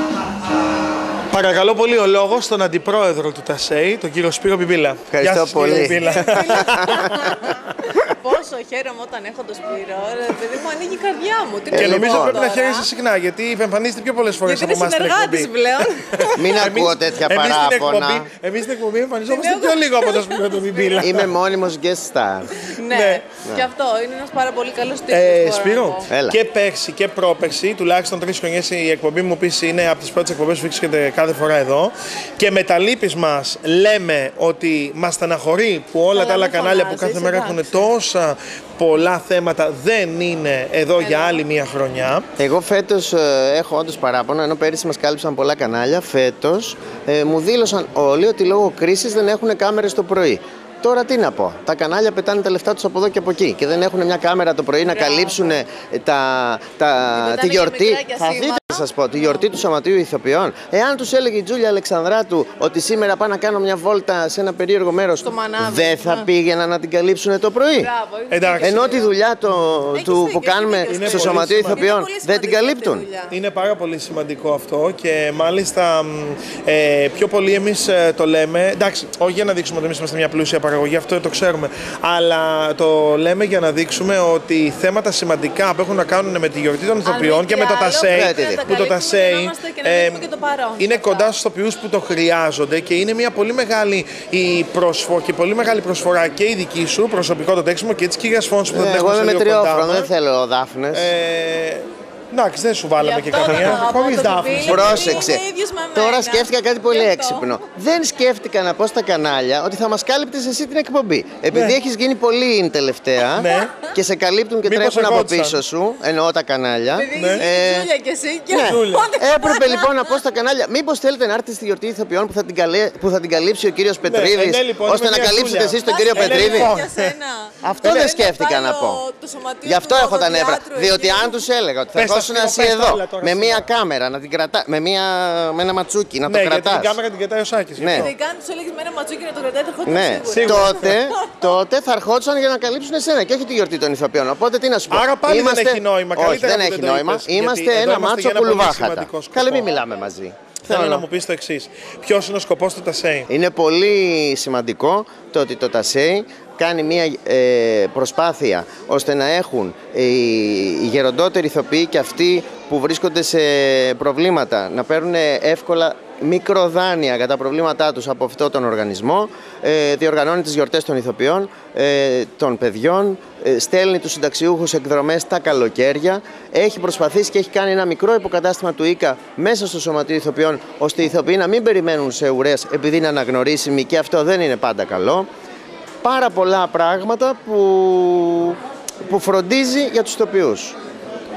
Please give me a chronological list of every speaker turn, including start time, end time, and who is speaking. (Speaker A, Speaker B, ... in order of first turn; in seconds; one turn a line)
Speaker A: 1.3-8.0
Speaker B: 5.1-7.2
Speaker C: 6.1-12.9
Speaker B: 11.7-12.4
Speaker A: 11.7-21.3
Speaker C: 14.4-16.5
Speaker B: 16.4-18.3
Speaker C: 19.3-21.1
Speaker B: 21.0-22.6
Speaker C: 22.7-26.1
Speaker A: 22.8-23.2
Speaker A: 25.1-42.3
Speaker B: 26.1-26.4
Speaker C: 36.1-37.7
Speaker C: 41.0-41.4
Speaker B: 42.4-67.9
Speaker C: 55.0-55.4
Speaker C: 57.2-58.9
Speaker C: 65.2-66.3
Speaker C: 67.8-69.1
Speaker A: 68.3-68.9
Speaker B: 68.6-73.1
Speaker C: 69.9-73.3
Speaker A: 70.9-71.9
Speaker A: 73.3-100.1
Speaker C: 87.0-91.3
Speaker B: 88.1-88.7
Speaker B: 98.7-101.1
Speaker A: 100.9-105.4
Speaker C: 103.0-107.5
Speaker B: 103.5-103.8
Speaker B: 104.6-117.9
Speaker A: 113.3-113.7
Speaker A: 114.7-115.6
Speaker C: 116.9-120.0
Speaker A: 117.1-117.5
Speaker B: 118.5-126.8
Speaker A: 118.6-119.1
Speaker A: 124.0-127.1
Speaker C: 125.8-131.4
Speaker B: 127.6-129.0
Speaker A: 127.8-128.1
Speaker B: 129.6-137.0
Speaker A: 131.9-133.7
Speaker A: 136.3-138.1
Speaker B: 137.8-138.1
Speaker C: 137.9-141.5
Speaker B: 139.9-151.1
Speaker A: 140.3-141.0
Speaker A: 144.9-149.8
Speaker A: 150.6-153.3
Speaker B: 153.3-185.3
Speaker B: 186.0-190.8